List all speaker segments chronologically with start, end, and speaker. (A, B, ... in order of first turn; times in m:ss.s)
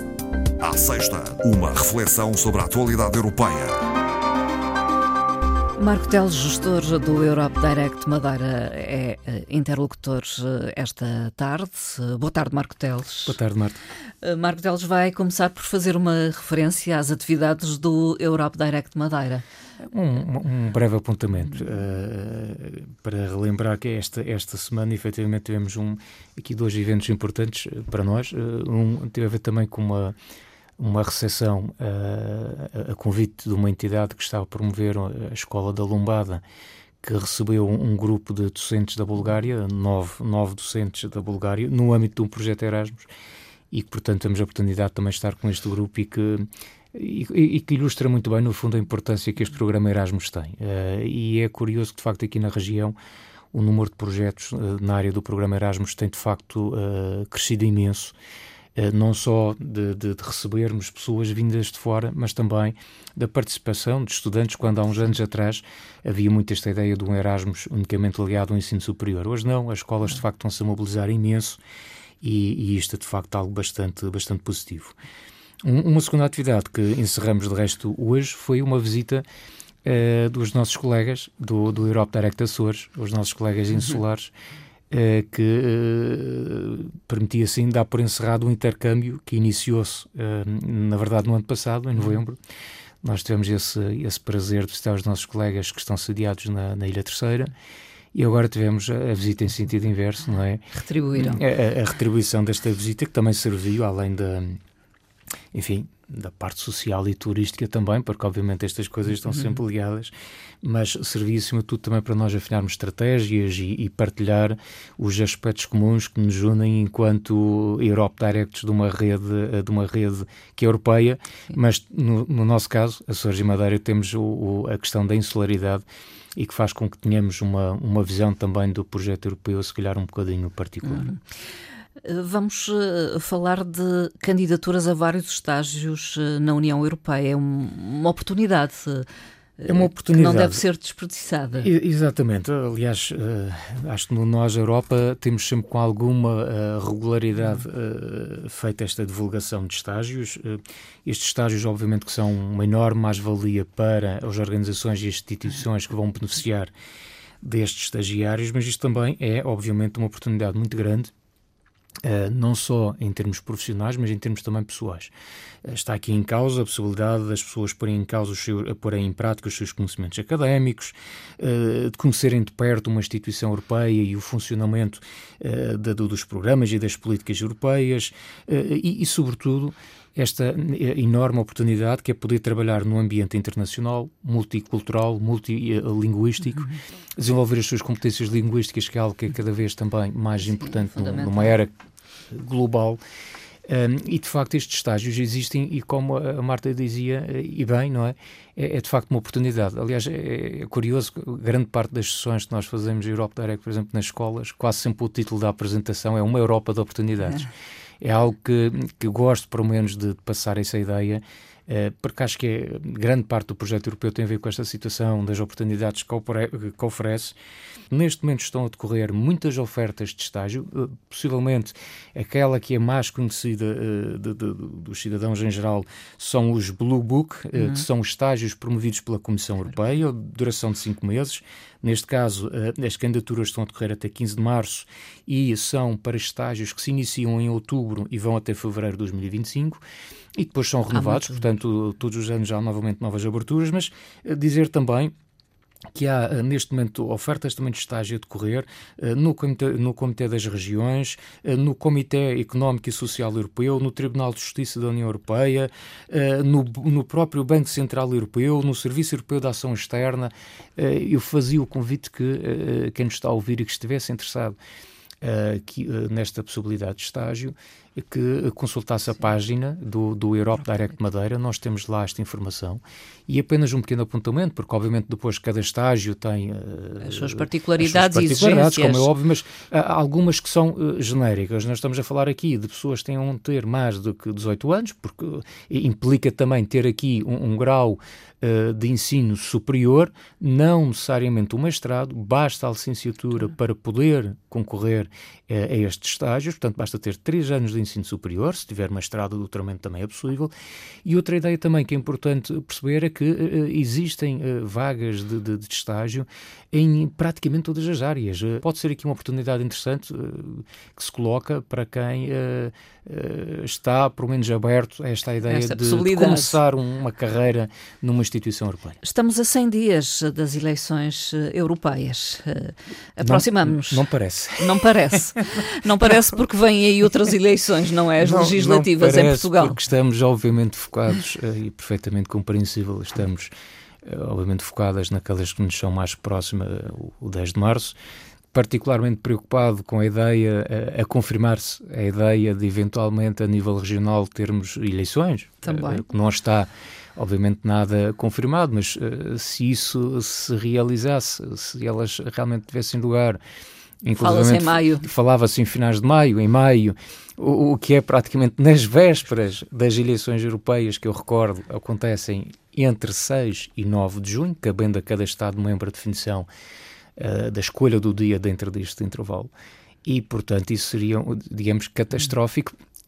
0:00.6-0:03.8 A
0:05.8-0:13.4 B
0:13.2-0:13.8 C
0:14.2-0:19.4 B
0:19.8-0:30.1 C
0:30.8-0:36.4 C
0:37.0-0:43.1 C
0:43.7-0:52.9 C
0:53.5-0:58.1 C
0:58.8-1:11.6 C
1:12.2-1:15.0 C
1:15.6-1:19.2 C
1:19.8-1:24.3 C
1:24.9-1:32.4 C
1:33.0-1:37.5 C
1:38.1-1:44.6 C
1:40.7-1:41.4 B
1:45.5-2:05.8 C
1:49.2-1:49.6 B
2:06.4-2:11.1 C
2:10.8-2:11.2 B
2:12.0-2:19.1 B
2:19.6-2:21.7 B
2:19.6-2:20.6 C
2:21.6-2:36.7 C
2:37.4-2:41.1 C
2:42.0-2:45.1 C
2:45.6-3:11.7 C
3:10.4-3:11.6 B
3:12.3-3:13.0 C
3:13.7-3:27.5 C
3:28.0-3:37.3 C
3:37.9-3:59.8 C
3:47.6-3:47.8 B
4:00.4-4:05.1 C
4:00.9-4:01.5 B
4:05.9-4:24.6 C
4:25.2-5:00.5 C
4:37.0-4:39.1 B
5:01.0-5:19.0 C
5:15.4-5:16.6 B
5:19.0-5:24.0 B
5:23.2-5:25.4 C
5:24.6-5:29.8 B
5:28.2-5:33.5 C
5:34.0-5:38.0 C
5:38.5-5:53.4 C
5:45.6-5:46.0 B
5:54.0-6:06.5 C
5:54.2-5:55.1 B
6:07.2-6:09.5 C
6:10.0-6:12.7 C